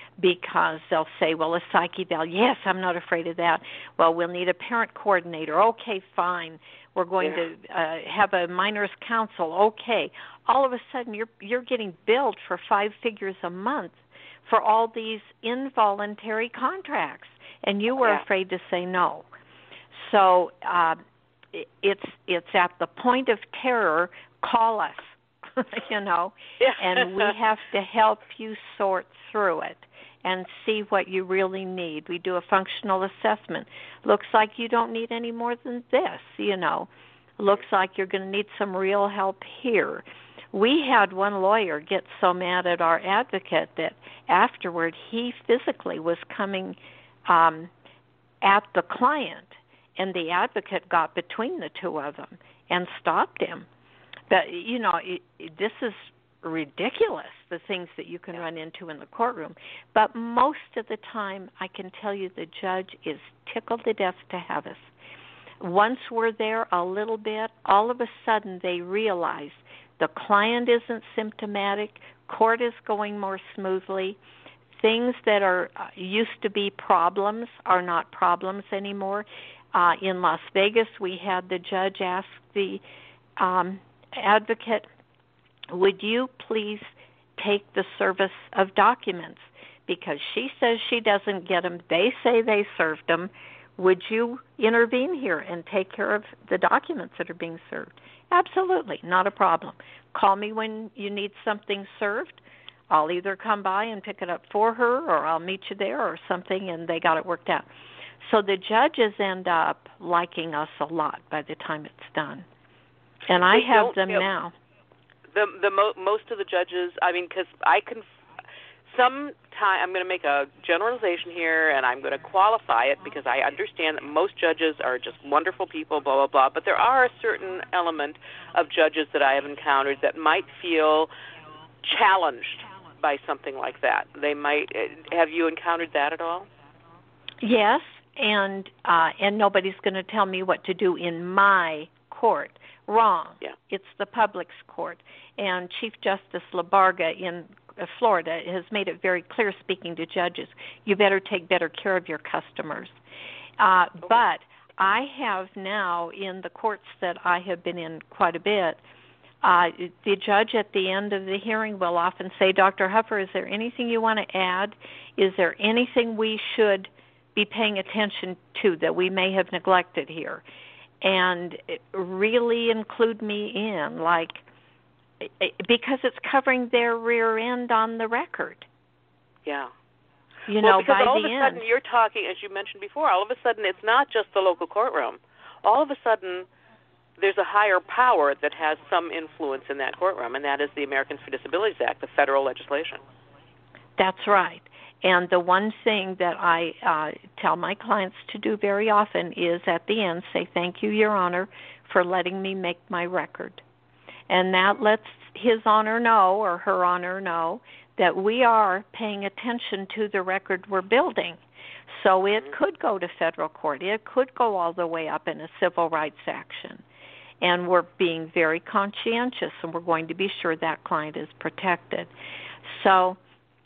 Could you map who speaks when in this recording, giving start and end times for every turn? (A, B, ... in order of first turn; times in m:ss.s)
0:00.2-0:19.3 A
0:19.9-0:21.0 A
0:21.5-0:47.7 A
0:26.6-0:27.3 B
0:48.4-0:53.7 A
0:54.3-1:04.9 A
1:05.6-1:14.2 A
1:14.8-1:22.8 A
1:23.4-1:24.9 A
1:25.7-1:47.7 A
1:48.2-1:52.5 A
1:53.3-1:54.5 A
1:53.5-1:54.3 B
1:55.3-1:58.0 B
1:58.9-2:11.1 B
2:11.8-2:16.5 B
2:17.4-2:33.0 A
2:33.6-2:38.8 A
2:39.4-2:50.4 A
2:51.0-2:54.4 A
2:55.2-2:58.7 A
2:59.4-2:59.7 B
3:00.5-3:01.6 A
3:00.6-3:06.5 B
3:07.2-3:13.0 B
3:14.0-3:23.6 A
3:24.3-3:31.4 A
3:31.9-3:36.8 A
3:37.4-3:42.1 A
3:42.6-3:43.2 A